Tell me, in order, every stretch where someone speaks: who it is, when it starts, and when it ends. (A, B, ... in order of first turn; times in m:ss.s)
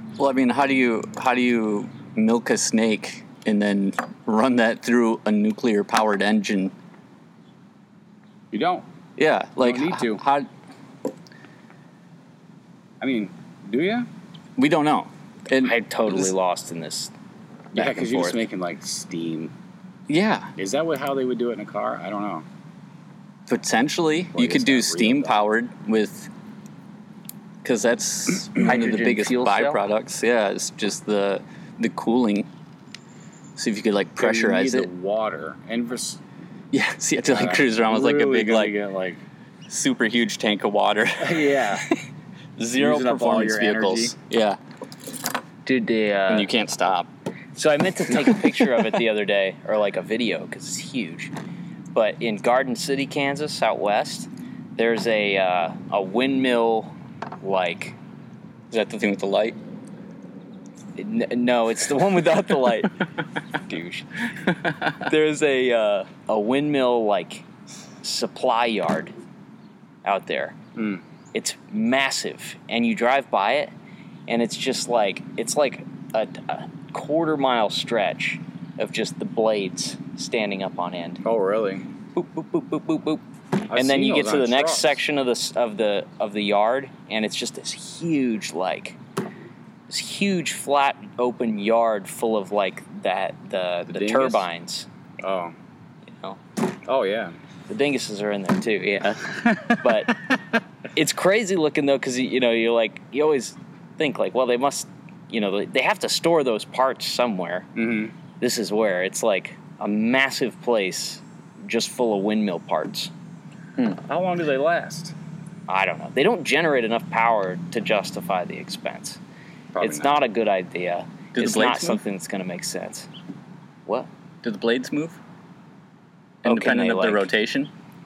0:00.2-0:06.7 A
0:08.5-0:08.8 B
0:09.2-0:10.5 A
0:09.6-0:10.2 B
0:13.0-0:14.1 B
0:14.6-0:15.8 A
0:15.6-0:17.1 C
0:17.7-0:18.4 C
0:17.7-0:19.5 B
0:20.1-0:20.5 A
0:20.6-0:22.4 B
0:23.5-0:26.3 A
0:24.3-0:25.4 B
0:27.6-0:32.5 A
0:28.6-0:29.8 C
0:33.6-0:34.9 A
0:34.2-0:36.2 B
0:36.7-0:38.7 A
0:37.2-0:39.2 B
0:39.7-0:42.0 A
0:41.2-0:41.8 B
0:42.6-0:44.6 A
0:42.7-0:44.1 B
0:45.6-0:46.5 C
0:46.3-0:47.1 A
0:47.5-0:51.3 C
0:48.3-0:48.6 A
0:51.9-0:58.0 C
0:58.7-0:59.6 A
1:01.0-1:04.2 C
1:04.9-1:07.4 C
1:08.0-1:09.1 C
1:10.0-1:10.6 C
1:10.8-1:11.0 B
1:11.3-1:13.7 C
1:14.3-1:21.2 C
1:21.2-1:21.9 B
1:22.1-1:29.0 C
1:23.7-1:25.0 B
1:29.9-1:34.9 C
1:33.9-1:34.4 B
1:35.2-1:35.5 B
1:36.1-1:36.4 C
1:36.8-1:37.3 B
1:37.7-1:40.1 C
1:40.9-1:47.7 C
1:47.8-1:48.1 B
1:48.4-1:53.1 C
1:53.9-1:55.1 B
1:55.7-1:59.2 C
1:59.7-2:00.2 B
1:59.8-2:03.1 C
2:01.3-2:02.0 A
2:04.4-2:05.2 A
2:06.4-2:07.3 C
2:06.4-2:07.7 A